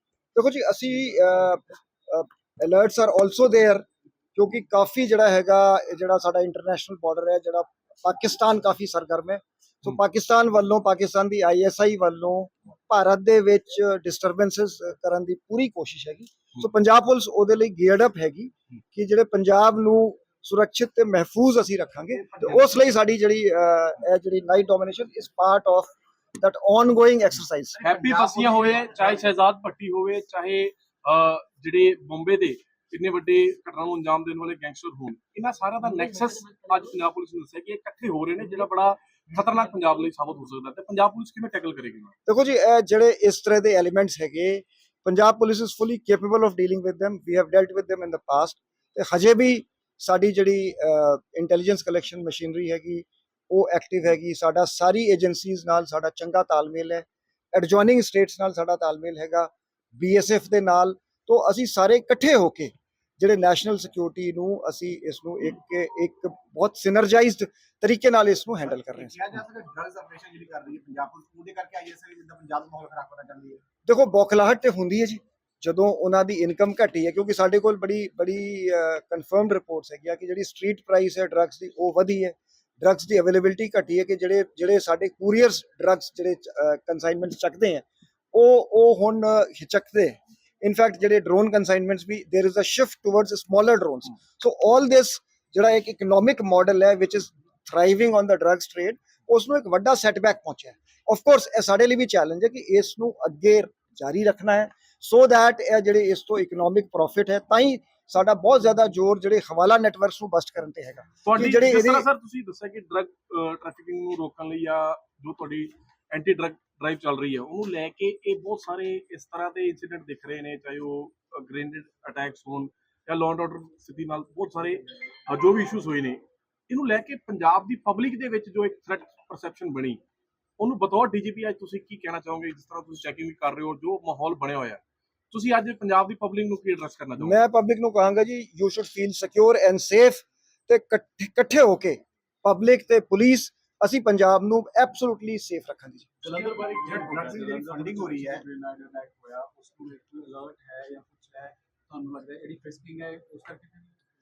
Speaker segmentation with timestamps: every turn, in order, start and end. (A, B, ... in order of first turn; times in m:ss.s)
0:00.3-0:27.8 A
0:27.8-0:42.1 B
0:27.8-0:28.8 C
0:42.2-1:09.2 A
1:08.7-1:13.6 C
1:13.8-1:52.1 A
1:51.2-2:10.0 B
2:10.6-2:17.4 B
2:17.2-2:26.1 A
2:26.2-2:34.0 D
2:26.3-2:28.4 C